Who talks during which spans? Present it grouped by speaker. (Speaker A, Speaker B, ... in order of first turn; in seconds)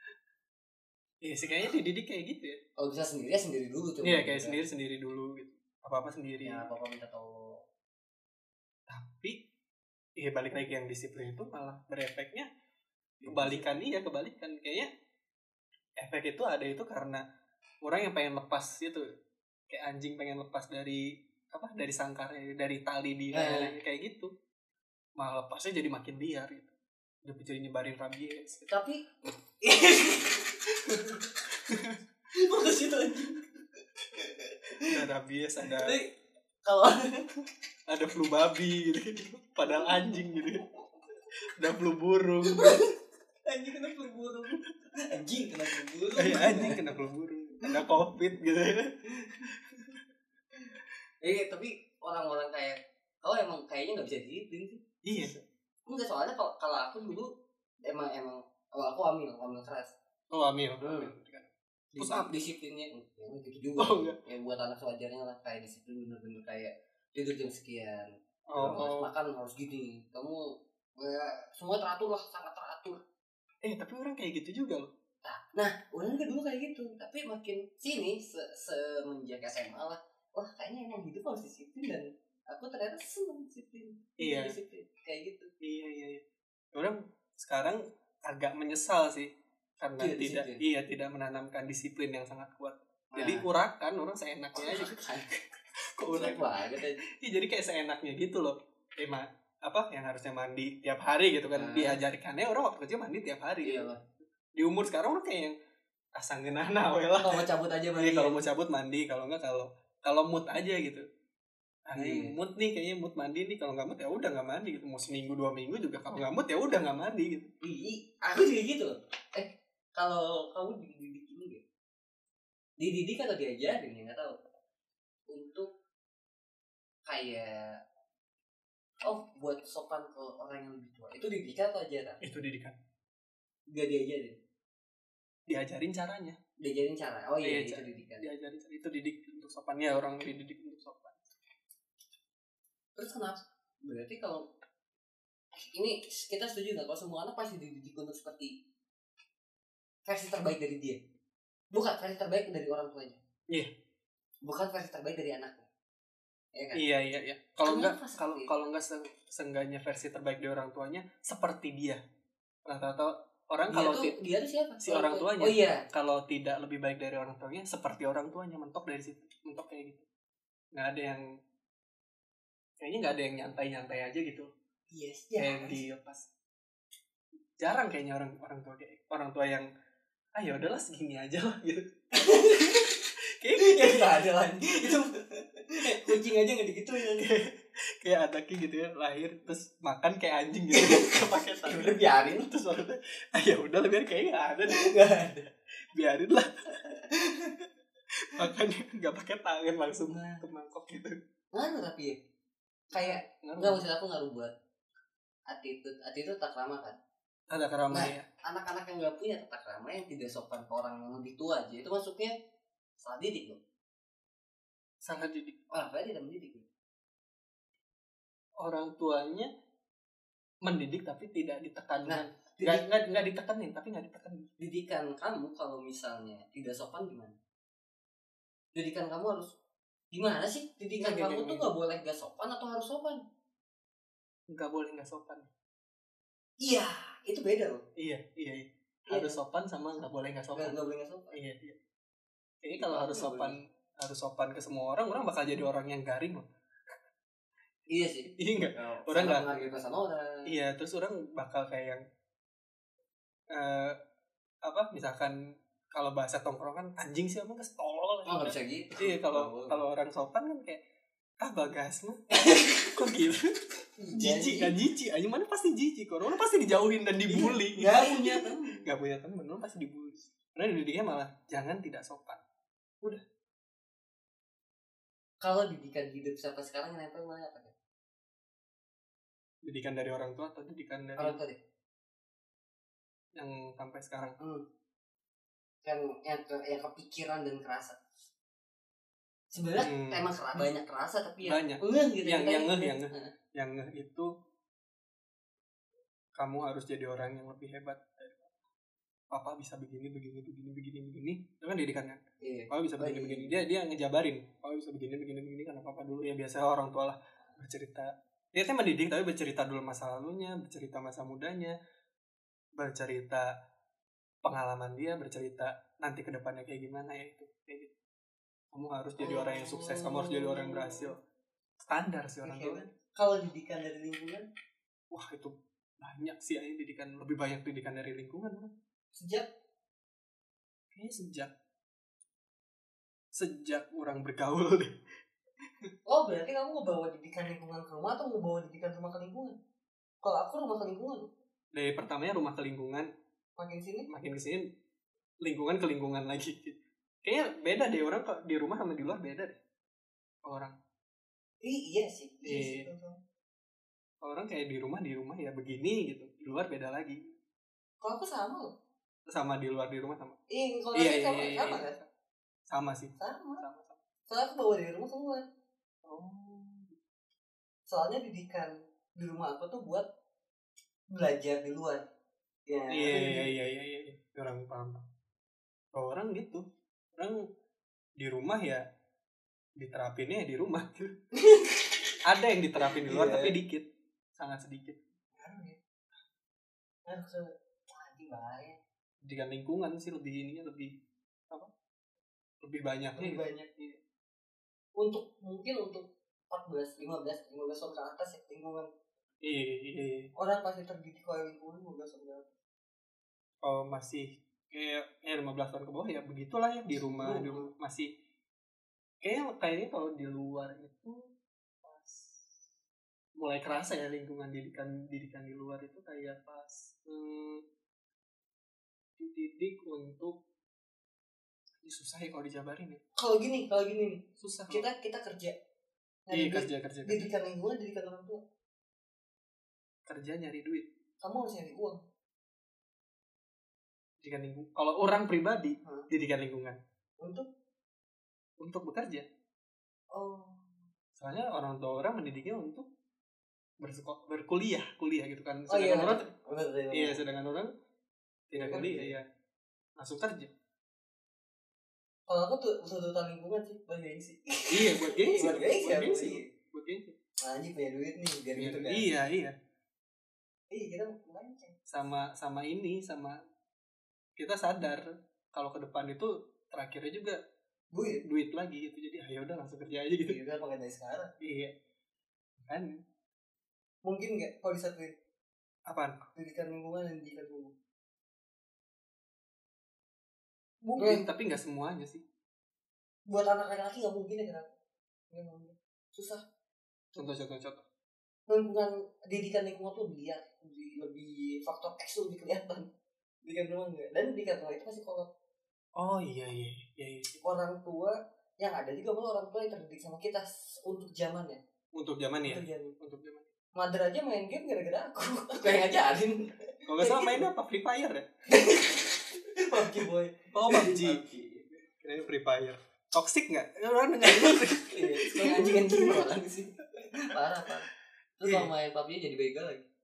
Speaker A: 1.2-2.6, 4.0-6.7, 8.9-9.4, 10.2-12.5, 13.3-14.9, 16.0-17.2, 17.8-19.1, 19.7-24.3, 25.2-26.7, 27.2-28.7, 31.7-32.0, 34.9-36.0, 37.9-40.6, 41.6-42.9, 46.2-50.0, 55.0-55.4, 60.3-62.4, 63.8-64.2, 68.5-69.1, 73.6-74.9, 84.2-84.6, 85.6-86.2, 86.7-95.5, 96.0-103.9, 104.6-105.5, 106.2-111.0, 111.9-117.5, 132.2-132.8, 135.5-136.4, 137.4-141.2, 156.7-162.0, 162.7-164.2, 164.8-170.0, 170.7-171.2, 172.8-174.5, 175.4-176.3, 177.6-179.7, 180.3-185.0, 185.8-186.2, 187.0-194.9, 195.9-196.8, 198.3-201.2, 202.9-203.8, 207.5-208.2, 215.0-215.6, 218.6-219.5, 220.6-224.5, 231.0-231.7, 234.5-235.5, 238.0-240.8, 241.3-241.8, 242.6-246.4, 248.4-249.5, 250.5-252.0, 253.5-254.0, 254.6-255.4, 255.9-260.8, 261.4-272.4, 279.6-281.4, 283.4-284.4, 289.8-290.7, 291.4-294.3, 296.4-298.5, 299.3-311.7, 312.8-313.5, 314.4-317.9, 318.7-321.2, 321.8-322.9, 325.1-328.7, 330.9-331.5, 333.3-334.9, 341.7-343.1, 344.1-344.6, 345.4-349.6, 350.4-350.8, 352.5-352.9, 354.2-357.3, 359.3-360.4, 360.9-362.1, 362.7-364.0, 366.0-367.0, 372.9-375.0, 375.9-376.6, 377.1-377.4, 378.2-378.8, 379.8-381.1, 382.2-385.0, 389.2-390.9, 392.6-394.0, 399.4-400.3, 403.6-408.1, 409.2-411.3, 411.8-412.5, 413.4-417.6, 419.2-420.4, 421.8-423.0, 424.4-424.9, 426.3-427.3, 430.1-430.9, 434.2-436.8, 438.6-439.2, 441.2-442.9, 443.8-446.3, 446.9-447.7, 448.5-449.2, 450.0-450.5, 454.7-457.1, 458.6-459.5, 461.9-463.4, 464.4-467.4, 468.2-470.4, 471.4-471.7, 472.6-473.0, 475.9-476.2, 481.0-482.2, 487.1-487.9, 496.0-497.4, 501.9-503.5, 506.9-508.3, 509.8-511.3, 511.9-516.3, 517.0-517.4, 518.5-518.7
Speaker B: 2.8-4.6, 6.4-7.6, 13.2-13.8, 23.3-23.8, 28.7-29.0, 29.6-31.3, 32.3-33.5, 34.1-35.0, 35.6-36.1, 36.6-37.3, 42.5-46.9, 49.1-49.5, 51.2-57.3, 57.8-59.9, 60.8-61.1, 61.9-73.0, 75.2-85.5, 90.0-90.6, 93.1-93.5, 94.6-95.3, 96.1-97.0, 101.5-102.0, 103.6-104.0, 107.2-108.4, 111.9-112.3, 117.6-121.6, 122.8-124.4, 125.3-125.7, 127.1-127.8, 129.0-132.2, 133.7-134.4, 136.6-138.2, 142.9-144.4, 145.6-148.5, 150.1-151.0, 151.7-153.2, 154.4-155.7, 156.6-156.8, 157.6-158.7, 163.7-165.9, 174.9-175.8, 182.1-182.9, 183.6-187.3, 190.7-192.5, 194.7-195.5, 196.9-197.6, 200.0-200.4, 201.6-202.2, 202.9-204.5, 205.5-207.0, 207.9-212.3, 213.0-213.6, 215.7-216.7, 222.1-222.8, 224.6-227.3, 228.8-229.5, 230.1-233.2, 236.6-237.8, 239.1-239.4, 240.5-241.4, 242.8-243.5, 247.9-250.5, 258.2-259.8, 262.4-263.0, 264.0-264.8, 267.3-268.9, 275.4-277.7, 281.2-281.6, 285.9-288.0, 289.5-293.3, 302.4-303.5, 319.2-321.1, 322.4-324.5, 329.1-329.5, 336.1-339.5, 340.2-341.3, 343.6-344.1, 351.6-353.2, 358.0-358.7, 360.5-362.0, 363.2-363.6, 364.3-365.5, 367.9-370.1, 371.1-372.0, 372.7-373.5, 381.4-381.9, 382.8-383.6, 385.4-385.8, 387.1-388.8, 393.2-393.7, 395.0-398.9, 400.4-402.5, 407.2-407.7, 423.1-425.5, 426.3-428.4, 431.2-432.0, 440.1-440.8, 445.7-447.2, 448.5-449.1, 452.3-456.5, 457.4-459.1, 460.7-461.8, 467.9-468.2, 470.2-471.3, 474.0-475.1, 476.4-477.7, 480.8-481.2, 483.3-484.7, 485.3-486.4, 488.5-492.9, 493.4-495.3, 497.4-501.6, 502.4-502.9, 503.8-507.5, 508.5-511.7, 514.2-517.9, 518.4-519.9